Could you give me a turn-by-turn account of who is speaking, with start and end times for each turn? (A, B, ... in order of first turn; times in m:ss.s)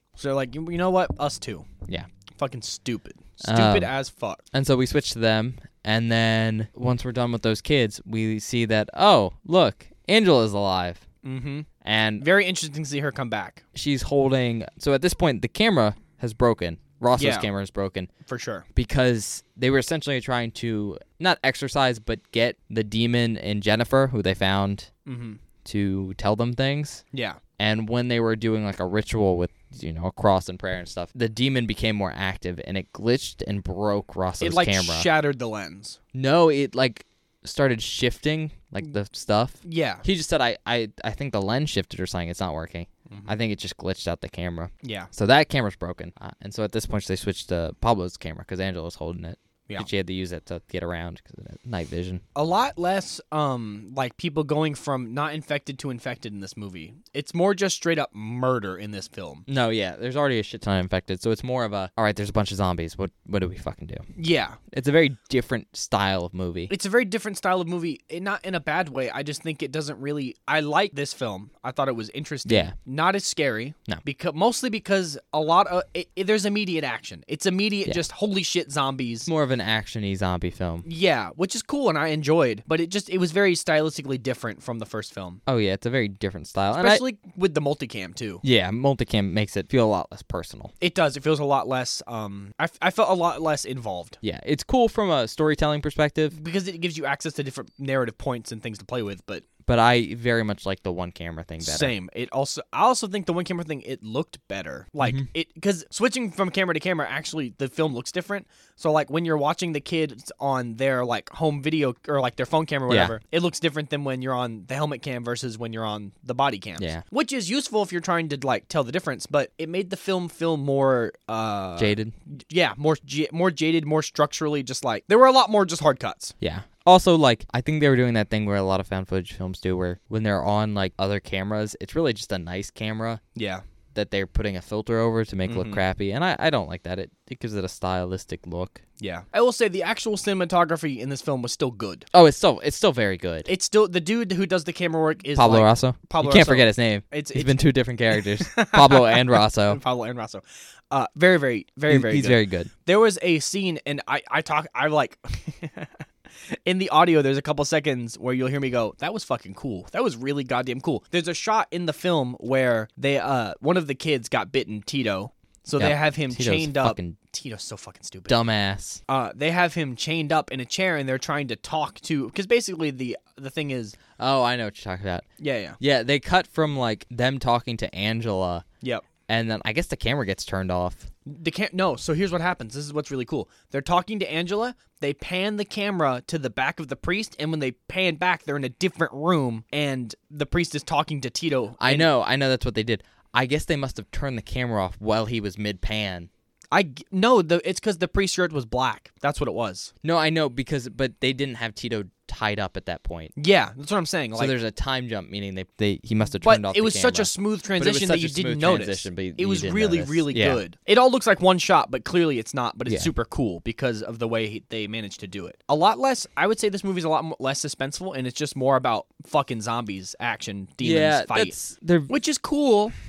0:00.2-0:01.7 A
0:02.4-0:04.4 A
0:03.4-0:03.9 B
0:04.5-0:11.0 B
0:11.2-0:11.7 A
0:11.8-0:12.2 B
0:12.2-0:13.6 A
0:13.7-0:18.1 B
0:17.2-0:17.5 A
0:18.2-0:18.6 A
0:18.7-0:24.9 B
0:25.0-0:25.4 A
0:25.6-0:27.0 B
0:27.1-0:27.4 A
0:27.6-0:35.1 B
0:34.4-0:36.0 A
0:36.1-0:52.2 B
0:39.6-0:40.0 A
0:44.8-0:45.1 A
0:52.3-0:59.4 A
0:59.5-1:04.0 B
1:04.2-1:04.6 A
1:04.7-1:06.7 B
1:06.7-1:19.3 A
1:12.4-1:12.7 B
1:19.3-1:20.8 B
1:20.8-1:25.4 A
1:25.4-1:27.0 B
1:26.7-1:28.4 A
1:28.4-1:30.7 B
1:30.8-1:34.2 A
1:34.2-1:36.4 B
1:36.3-1:39.4 A
1:39.7-1:41.9 B
1:41.6-2:06.3 A
1:52.9-1:53.1 B
2:01.8-2:02.1 B
2:06.4-2:13.2 B
2:13.3-2:13.6 A
2:13.9-2:18.8 B
2:15.4-2:15.8 A
2:19.0-2:22.1 A
2:22.1-2:23.5 B
2:23.4-2:27.6 A
2:25.3-2:29.8 B
2:28.1-2:35.9 A
2:31.9-2:32.7 B
2:36.6-2:48.4 A
2:45.8-2:47.2 B
2:48.3-2:49.0 B
2:49.1-2:54.0 A
2:54.2-2:55.2 B
2:55.4-2:55.8 A
2:55.8-2:58.6 B
2:59.3-3:01.1 B
3:01.2-3:12.1 A
3:11.8-3:16.3 B
3:16.7-3:19.9 A
3:20.0-3:23.3 B
3:23.4-3:24.5 A
3:24.3-3:30.6 B
3:26.4-3:41.6 A
3:32.9-3:33.1 B
3:40.8-3:42.1 B
3:42.1-3:42.9 A